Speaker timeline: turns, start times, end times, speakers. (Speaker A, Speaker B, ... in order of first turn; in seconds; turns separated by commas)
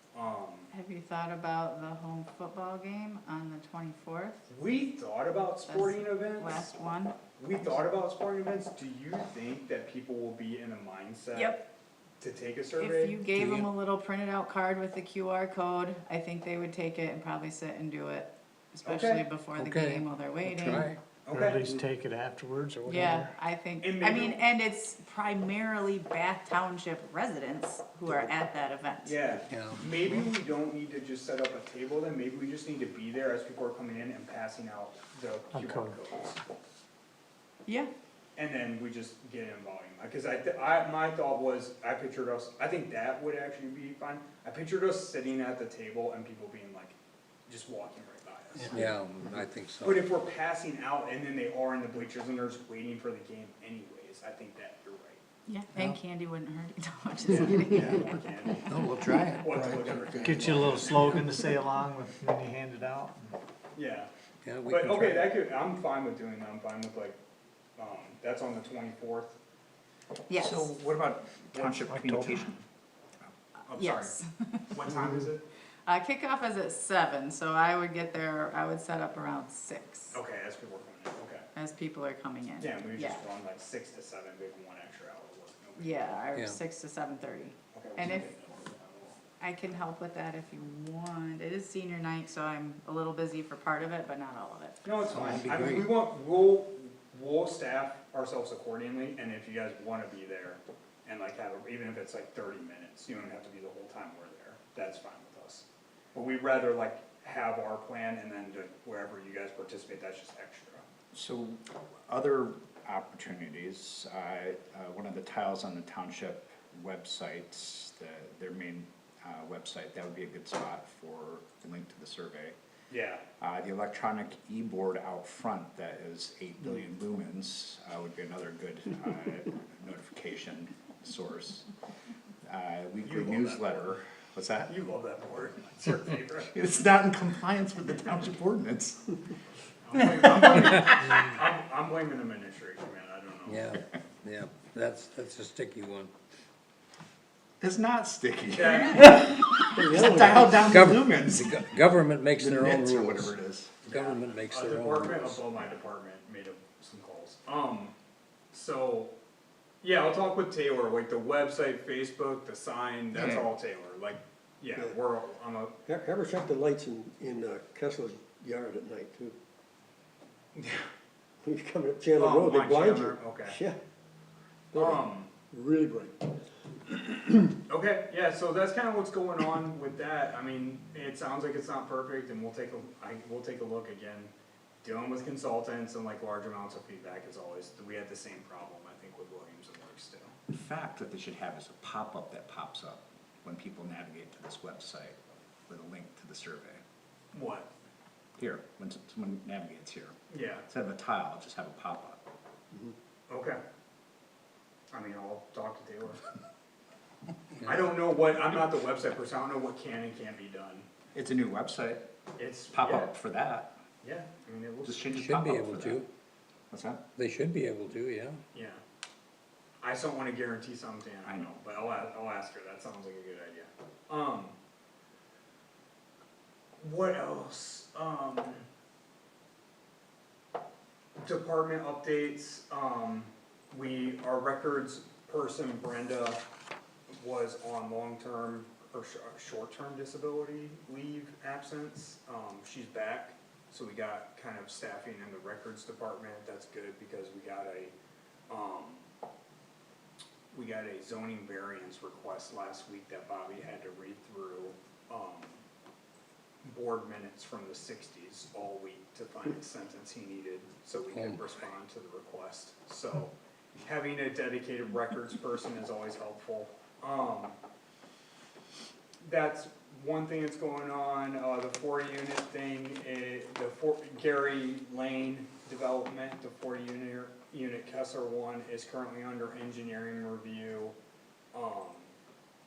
Speaker A: 0.1-0.7, Speaker B: 0.7-4.5, Speaker A: 4.5-6.7, Speaker B: 5.7-7.2, Speaker A: 7.4-11.6, Speaker B: 11.3-11.7, Speaker A: 12.2-13.2, Speaker B: 12.8-20.9, Speaker C: 13.3-13.7, Speaker A: 18.9-19.3, Speaker C: 19.6-21.0, Speaker A: 21.3-21.7, Speaker D: 21.3-23.3, Speaker B: 22.9-29.3, Speaker A: 23.8-24.4, Speaker A: 29.1-36.4, Speaker C: 29.5-30.3, Speaker D: 35.5-36.0, Speaker A: 38.4-48.9, Speaker C: 48.6-50.0, Speaker A: 49.8-55.2, Speaker B: 55.5-58.8, Speaker A: 57.3-58.8, Speaker C: 58.7-59.6, Speaker A: 59.4-61.3, Speaker D: 60.1-63.2, Speaker A: 63.8-64.1, Speaker C: 64.5-65.3, Speaker A: 64.7-67.2, Speaker A: 67.8-69.4, Speaker B: 70.3-70.7, Speaker E: 70.3-72.6, Speaker A: 71.5-72.2, Speaker A: 73.7-74.2, Speaker B: 73.7-74.7, Speaker A: 74.7-75.5, Speaker B: 75.9-80.2, Speaker A: 80.1-81.5, Speaker B: 81.5-83.3, Speaker A: 82.6-86.2, Speaker B: 85.8-88.3, Speaker A: 87.7-89.2, Speaker B: 89.4-94.9, Speaker A: 94.8-110.8, Speaker C: 95.1-95.9, Speaker E: 111.1-122.6, Speaker A: 122.9-123.2, Speaker E: 123.4-131.7, Speaker E: 132.4-134.8, Speaker A: 133.0-133.8, Speaker A: 134.7-136.6, Speaker E: 136.4-139.2, Speaker A: 139.8-143.8, Speaker C: 143.5-146.1, Speaker E: 147.6-151.6, Speaker A: 148.5-149.3, Speaker F: 149.7-151.2, Speaker C: 150.7-153.3, Speaker E: 152.4-153.8, Speaker F: 152.5-153.1, Speaker C: 153.8-155.5, Speaker A: 153.9-157.9, Speaker A: 158.5-159.1, Speaker A: 159.8-165.8, Speaker E: 163.1-163.4, Speaker F: 165.9-169.4, Speaker A: 170.6-170.8, Speaker F: 171.4-173.8, Speaker A: 172.2-173.6, Speaker F: 174.7-176.3, Speaker A: 174.8-175.3, Speaker F: 176.9-177.4, Speaker A: 177.7-184.3, Speaker A: 184.8-190.3, Speaker E: 190.5-196.8, Speaker A: 197.3-197.7, Speaker E: 198.4-200.2, Speaker A: 200.3-200.7, Speaker E: 200.7-202.2, Speaker A: 203.3-203.6, Speaker A: 204.9-206.2, Speaker A: 207.6-210.9, Speaker E: 211.2-212.1, Speaker A: 212.4-213.1, Speaker E: 212.7-213.8, Speaker A: 214.0-215.2, Speaker E: 214.8-216.0, Speaker C: 215.2-216.1, Speaker E: 216.7-217.0, Speaker C: 217.2-218.4, Speaker A: 218.5-218.8, Speaker A: 219.8-224.6, Speaker E: 221.3-221.6, Speaker A: 226.8-228.7, Speaker A: 231.2-236.4, Speaker A: 237.1-247.9, Speaker A: 248.5-249.0, Speaker A: 250.5-255.6, Speaker A: 256.6-267.6, Speaker C: 261.1-261.4, Speaker A: 269.2-280.9, Speaker A: 281.5-282.1